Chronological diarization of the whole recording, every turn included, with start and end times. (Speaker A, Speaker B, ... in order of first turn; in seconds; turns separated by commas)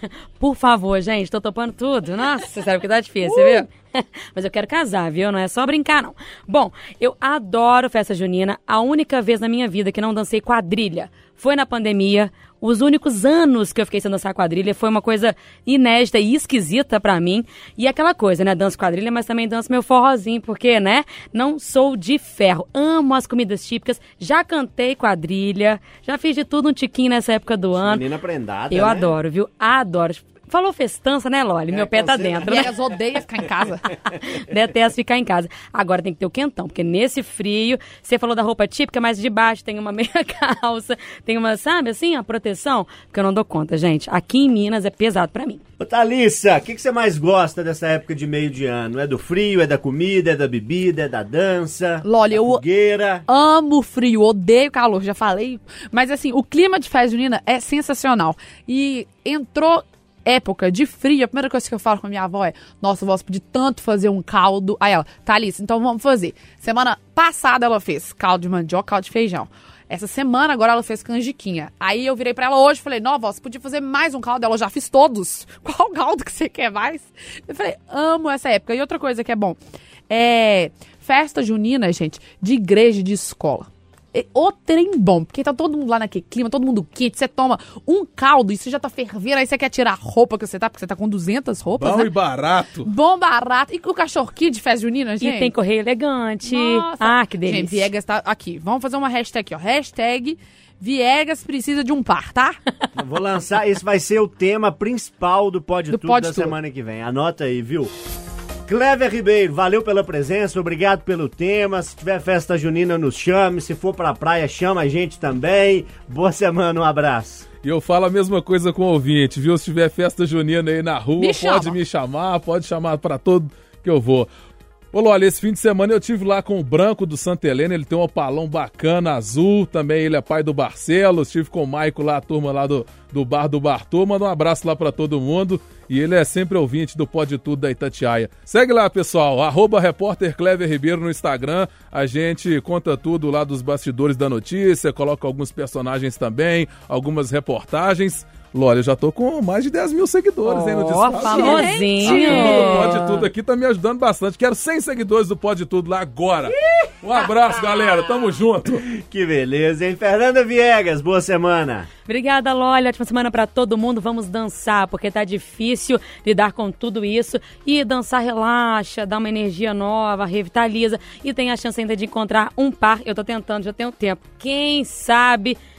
Speaker A: 0.4-28.0, Speaker B: 3.2-3.6, Speaker C: 27.8-29.1, Speaker A: 28.7-32.7, Speaker C: 31.7-32.7, Speaker B: 32.4-33.9, Speaker A: 34.2-45.6, Speaker C: 45.8-53.2, Speaker B: 52.0-52.6, Speaker B: 53.3-92.1, Speaker D: 91.8-92.9, Speaker B: 92.8-95.5, Speaker A: 95.2-97.9, Speaker B: 96.5-102.6, Speaker C: 103.0-107.9, Speaker B: 105.9-106.5, Speaker C: 108.7-117.5, Speaker D: 117.6-124.3, Speaker B: 121.2-121.8, Speaker D: 124.9-158.8, Speaker A: 150.4-153.3, Speaker B: 151.1-153.0, Speaker C: 159.0-161.9, Speaker A: 162.1-175.6